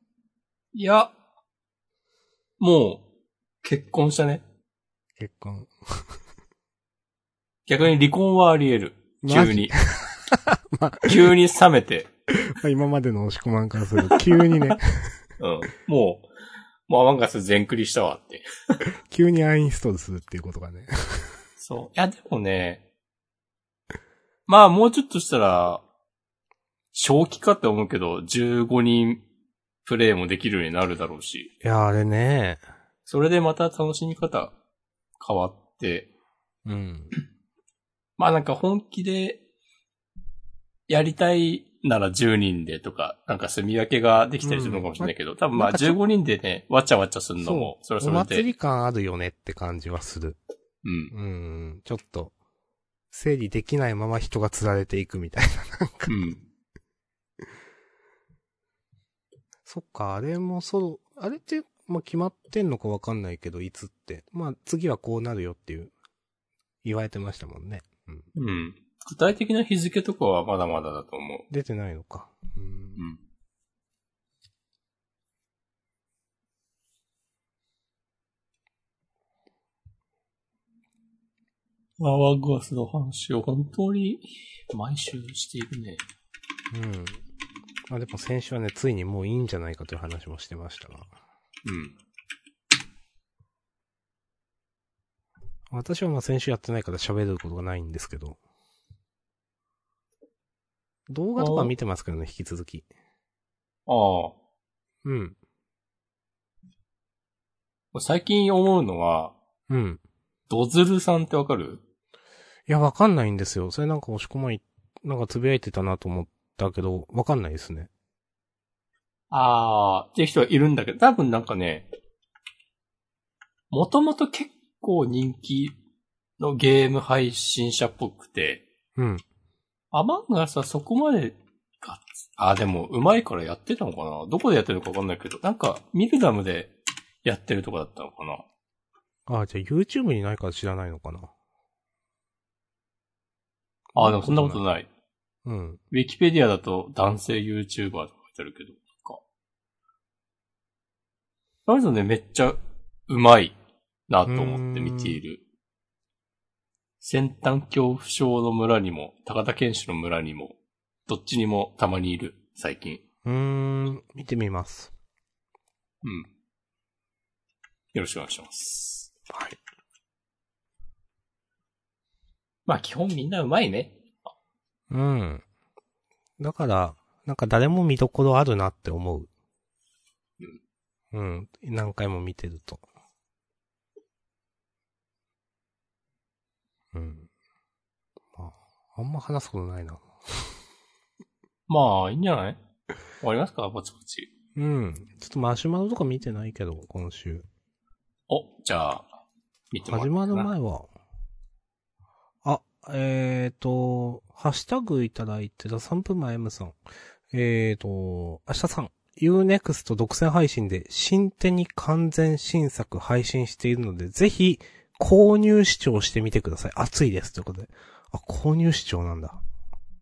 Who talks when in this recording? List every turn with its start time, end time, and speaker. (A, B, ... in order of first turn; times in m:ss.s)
0:00.7-0:01.1 A
0:02.6-0:03.0 A
0:03.6-0:04.4 A
0:05.2-0:06.1 B
0:07.7-0:09.8 A
0:09.2-0:11.2 B
0:11.1-0:12.1 A
0:12.4-0:15.2 B
0:15.4-0:16.3 A
0:16.9-0:18.8 A
0:18.9-0:21.3 B
0:21.6-0:22.8 A
0:24.5-0:25.8 A
0:26.9-0:29.2 A
0:29.8-0:31.5 A
0:31.6-0:32.6 B
0:33.1-0:34.5 A
0:35.2-0:36.1 A
0:36.7-0:37.1 B
0:38.2-0:39.4 A
0:40.9-0:48.5 A
0:44.4-0:46.0 B
0:47.4-0:50.4 B
0:50.8-0:51.1 A
0:51.1-0:52.3 B
0:53.1-0:56.2 B
0:56.1-0:56.4 A
0:59.7-1:05.9 B
1:06.8-1:08.3 B
1:08.4-1:11.4 A
1:11.5-1:13.0 B
1:22.0-1:26.0 A
1:26.7-1:27.2 B
1:27.9-1:31.1 B
1:31.6-1:32.0 A
1:35.7-1:38.4 B
1:41.1-1:42.9 B
1:41.4-1:41.7 A
1:43.9-1:44.4 A
1:45.0-1:45.4 B
1:47.9-1:49.4 A
1:49.7-1:50.0 B
1:50.5-1:51.8 A
1:52.7-1:57.9 B
1:59.3-2:01.9 A
2:03.7-2:05.8 A
2:06.4-2:08.6 A
2:09.0-2:09.2 B
2:09.9-2:18.4 A
2:19.3-2:21.3 B
2:23.9-2:24.6 B
2:24.0-2:24.9 A
2:25.4-2:25.8 B
2:25.9-2:29.2 A
2:31.7-2:33.6 A
2:34.1-2:35.4 A
2:34.3-2:35.2 B
2:37.0-2:40.6 A
2:41.1-2:43.0 A
2:43.2-2:44.9 B
2:46.0-2:46.3 A
2:47.9-2:49.1 A
2:49.3-2:49.6 B
2:52.7-2:54.3 A
2:54.9-2:55.4 B
2:56.4-2:59.3 B
3:01.1-3:02.8 B
3:06.9-3:07.3 B
3:08.3-3:10.5 B
3:11.7-3:12.6 A
3:13.2-3:14.3 A
3:14.6-3:17.4 B
3:18.3-3:19.1 A
3:19.7-3:20.5 A
3:19.8-3:20.9 B
3:22.4-3:26.8 B
3:27.3-3:39.4 B